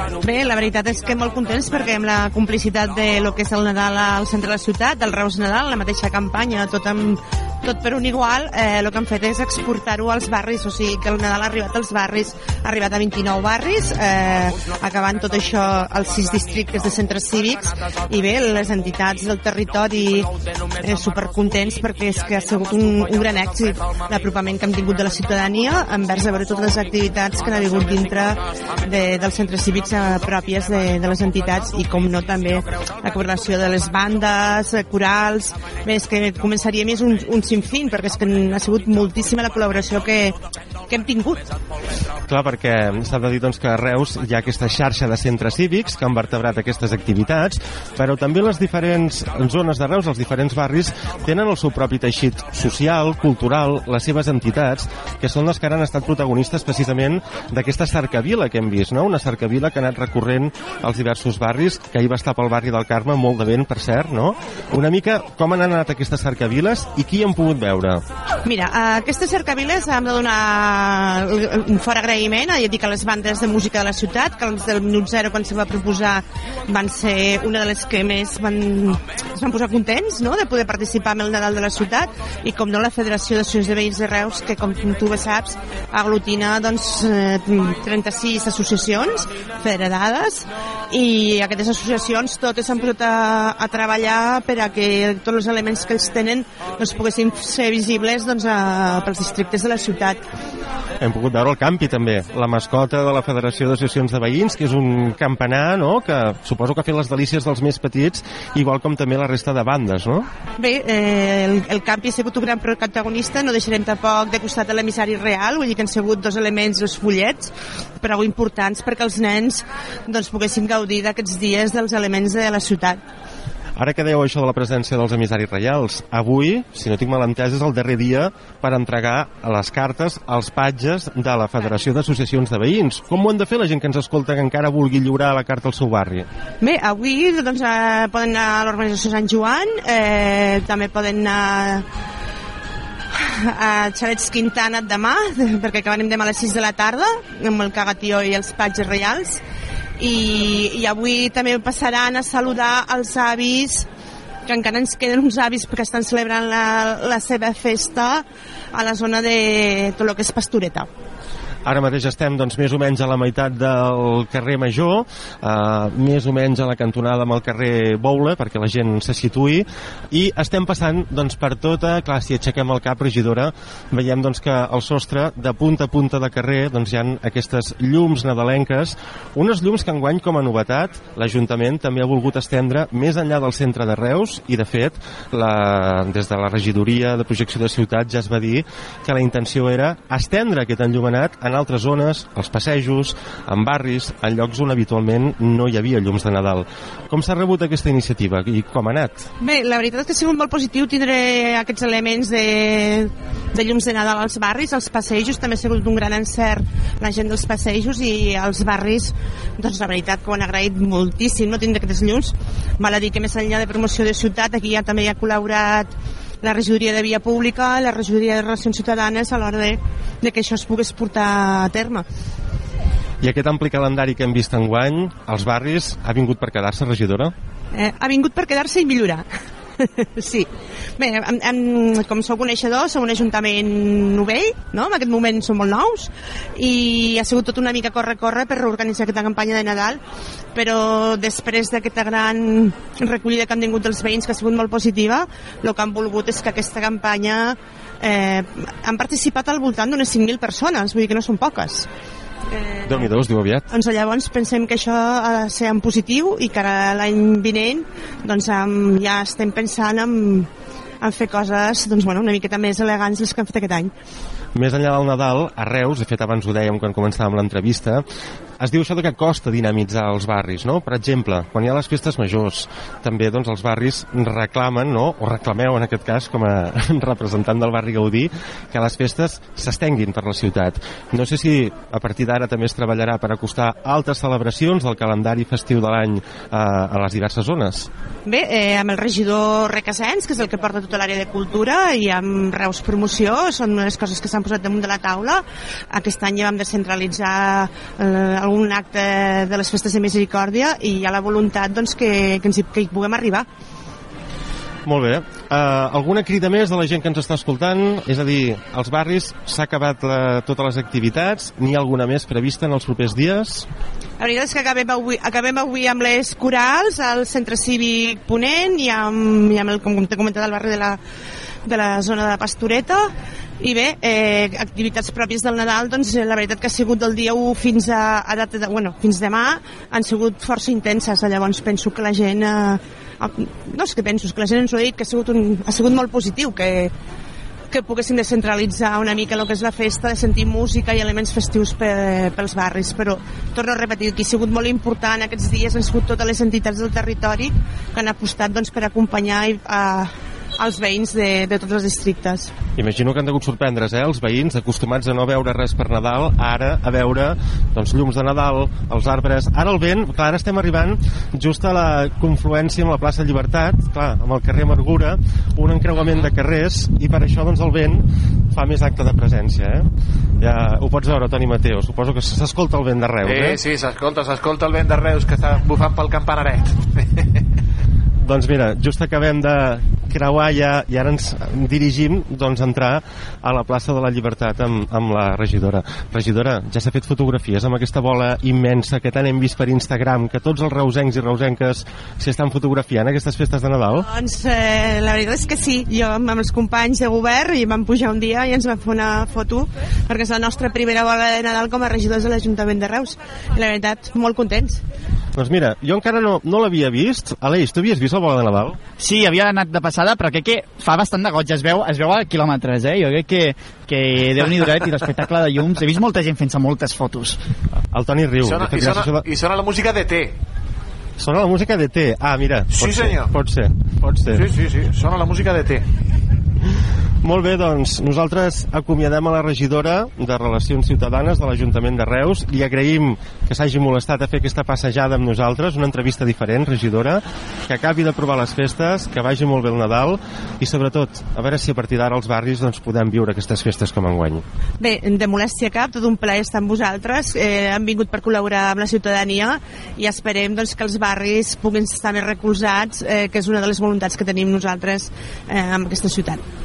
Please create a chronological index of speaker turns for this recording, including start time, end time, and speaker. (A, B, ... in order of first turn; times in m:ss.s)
0:00.2-0:20.3 A
0:20.8-0:40.4 A
0:40.9-0:41.4 A
0:42.3-1:08.0 B
1:08.5-1:40.2 A
1:41.0-1:50.3 B
1:50.6-2:03.0 A
2:03.8-2:16.3 B
2:16.6-2:21.8 A
2:23.2-2:29.4 A
2:30.0-2:33.9 A
2:34.5-2:40.9 A
2:41.6-3:19.3 B
3:19.4-3:35.9 A
3:36.4-3:42.0 A
3:43.2-3:47.3 B
3:47.7-3:49.3 A
3:49.8-4:00.0 A
4:00.6-4:11.9 A
4:12.5-4:13.1 A
4:12.8-4:13.7 B
4:13.7-4:20.5 A
4:21.0-4:23.9 A
4:24.6-4:28.0 B
4:28.6-4:47.9 B
4:48.2-5:03.5 A
5:04.8-5:13.7 B
5:14.2-5:21.0 A
5:21.7-5:36.9 A
5:37.7-5:52.5 A
5:52.8-6:09.9 B
6:10.4-6:13.6 B
6:13.2-6:17.1 C
6:18.2-6:34.1 B
6:34.0-6:44.8 A
6:45.4-6:48.8 B
6:49.0-6:57.4 D
6:57.9-6:59.2 B
6:58.4-7:00.3 C
7:01.2-7:04.4 B
7:02.7-7:03.3 C
7:04.3-7:05.8 C
7:07.2-7:24.4 B
7:24.8-7:36.4 A